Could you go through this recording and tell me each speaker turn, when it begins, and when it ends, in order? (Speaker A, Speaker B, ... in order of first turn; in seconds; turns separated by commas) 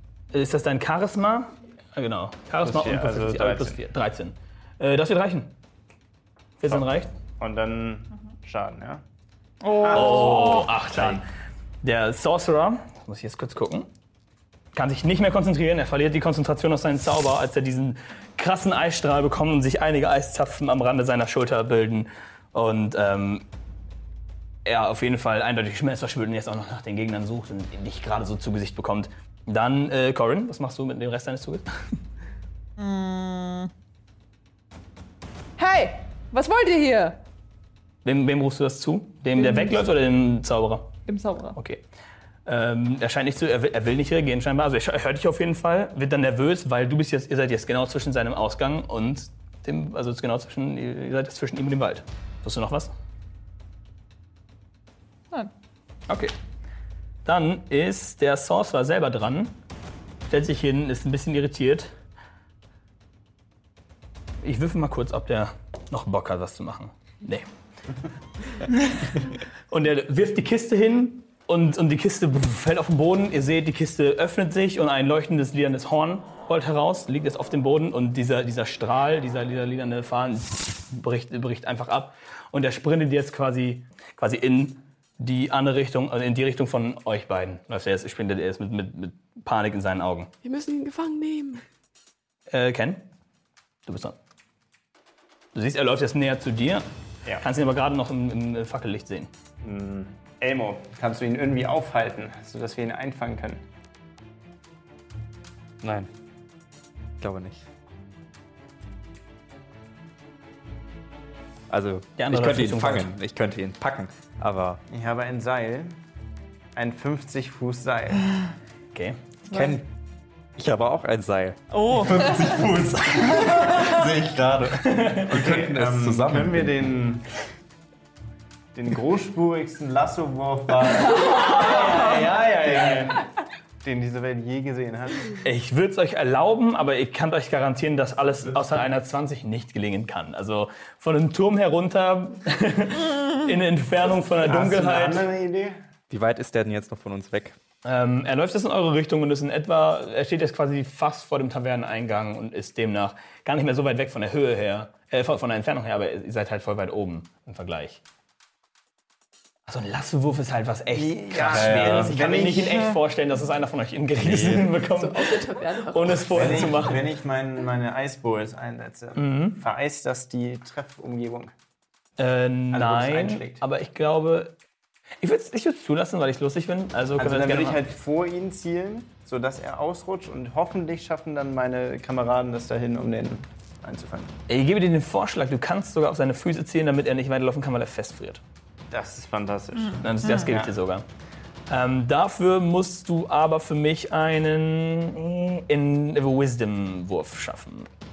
Speaker A: 0.3-5.5, Speaker B: 2.6-3.8, Speaker A: 6.6-7.1, Speaker B: 7.4-9.0, Speaker C: 9.6-10.7, Speaker B: 9.8-11.1, Speaker A: 9.9-11.3, Speaker A: 11.8-13.9, Speaker A: 14.7-23.4, Speaker A: 24.6-32.0, Speaker C: 32.8-33.7, Speaker C: 35.6-37.2, Speaker A: 38.0-41.0, Speaker C: 39.4-39.8, Speaker C: 41.1-41.5, Speaker A: 41.5-41.8, Speaker A: 42.5-52.9, Speaker A: 56.1-56.3, Speaker A: 57.2-59.6, Speaker A: 60.3-61.9, Speaker A: 64.4-67.5, Speaker A: 69.7-90.3, Speaker D: 90.4-91.6, Speaker A: 92.5-93.0, Speaker A: 93.8-94.2, Speaker A: 95.5-96.8, Speaker A: 97.4-99.3, Speaker B: 99.6-103.6, Speaker E: 105.8-106.1, Speaker E: 107.2-107.6, Speaker E: 111.7-114.8, Speaker A: 112.2-113.1, Speaker B: 114.9-115.9, Speaker B: 116.7-118.3, Speaker A: 118.9-119.2, Speaker E: 119.5-119.9, Speaker E: 120.6-126.9, Speaker C: 121.7-122.5, Speaker B: 122.1-123.7, Speaker A: 124.8-125.3, Speaker B: 125.2-127.2, Speaker B: 128.7-133.3, Speaker A: 131.3-132.2, Speaker A: 132.7-133.0, Speaker B: 133.8-135.4, Speaker A: 135.4-145.2, Speaker B: 144.3-145.7, Speaker E: 146.1-147.6, Speaker A: 147.8-158.0, Speaker A: 159.7-167.1, Speaker B: 160.9-162.9, Speaker E: 161.5-162.2, Speaker E: 164.2-164.7, Speaker D: 164.8-166.7, Speaker B: 166.3-171.5, Speaker A: 169.2-169.6, Speaker A: 172.2-174.6, Speaker B: 172.7-173.6, Speaker A: 175.2-177.8, Speaker B: 177.2-184.3, Speaker A: 184.5-188.4, Speaker B: 188.9-190.7, Speaker C: 189.9-190.5, Speaker A: 190.0-191.1, Speaker A: 191.7-197.9